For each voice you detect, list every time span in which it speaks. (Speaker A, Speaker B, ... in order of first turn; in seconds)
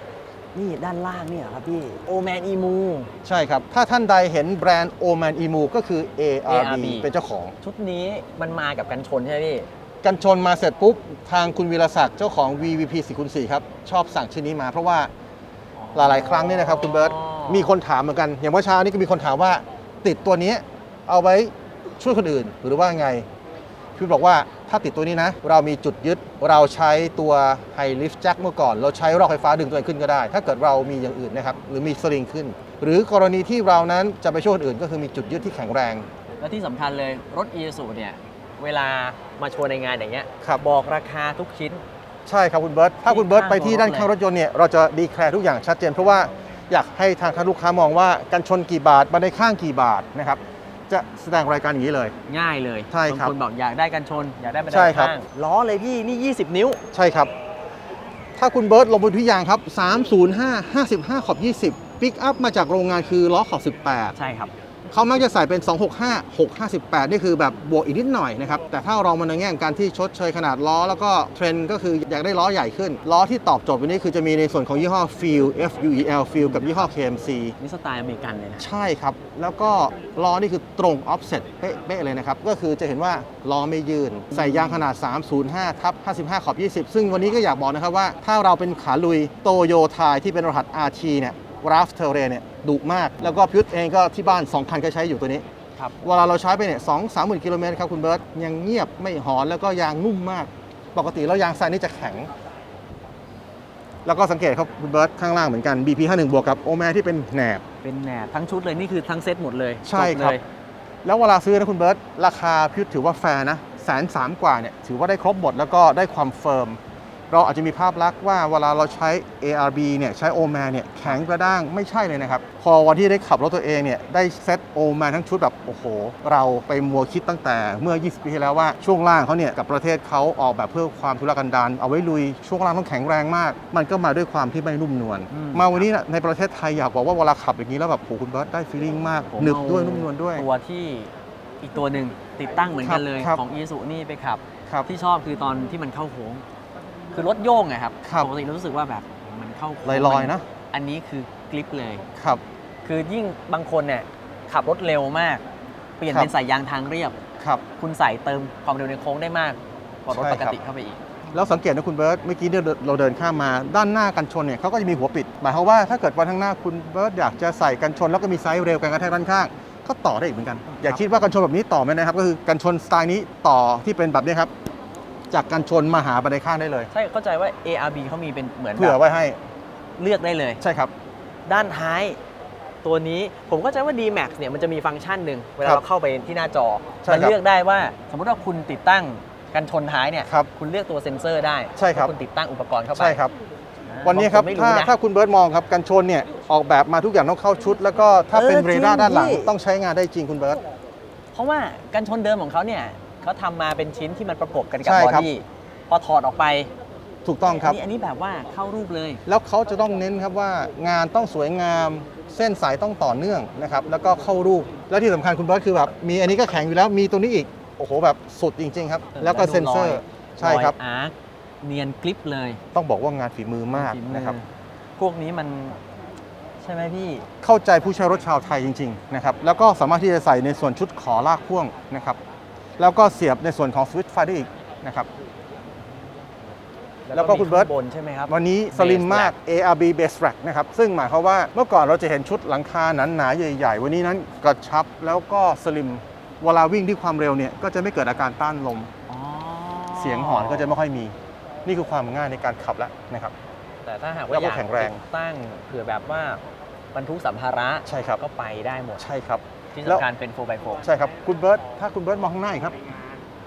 Speaker A: 0.5-3.1, 6.5-7.1, 7.6-9.7, 15.8-17.7, 36.4-41.8, 43.0-44.1, 52.3-56.8, 64.1-64.5, 76.3-76.9, 77.6-78.7, 84.3-84.8, 107.8-110.4, 135.3-135.9, 139.3-146.4, 147.1-152.0, 152.8-155.4, 156.0-157.2, 157.8-161.2, 170.7-171.2, 176.9-179.0, 180.0-180.6, 181.5-182.2, 182.8-193.2, 193.9-194.9, 198.3-199.5, 201.3-206.7, 207.4-209.2, 219.2-222.6, 223.7-224.4, 225.0-225.8, 226.6-227.2, 237.1-239.3, 249.1-250.8, 253.8-256.4, 256.9-259.1, 259.7-260.8
Speaker B: 3.2-7.5, 10.0-15.1, 15.9-23.2, 23.9-36.1, 42.2-52.1, 52.9-53.3, 54.7-55.1, 56.9-57.3, 58.4-64.1, 64.9-77.5, 78.6-95.4, 96.0-102.3, 104.0-107.6, 109.8-110.4, 111.0-116.8, 117.3-140.5, 142.8-143.4, 148.0-148.3, 149.8-150.4, 160.1-160.6, 161.3-174.5, 175.3-176.9, 178.8-179.4, 180.6-180.9, 187.0-187.4, 191.8-192.1, 192.9-193.3, 194.0-200.6, 204.8-205.3, 207.2-207.8, 209.2-220.7, 222.7-224.3, 227.4-232.2, 232.8-235.1, 237.1-237.7, 238.3-248.9, 249.9-251.1, 251.6-253.3, 254.3-255.0, 257.9-258.2, 259.0-260.0, 260.8-262.9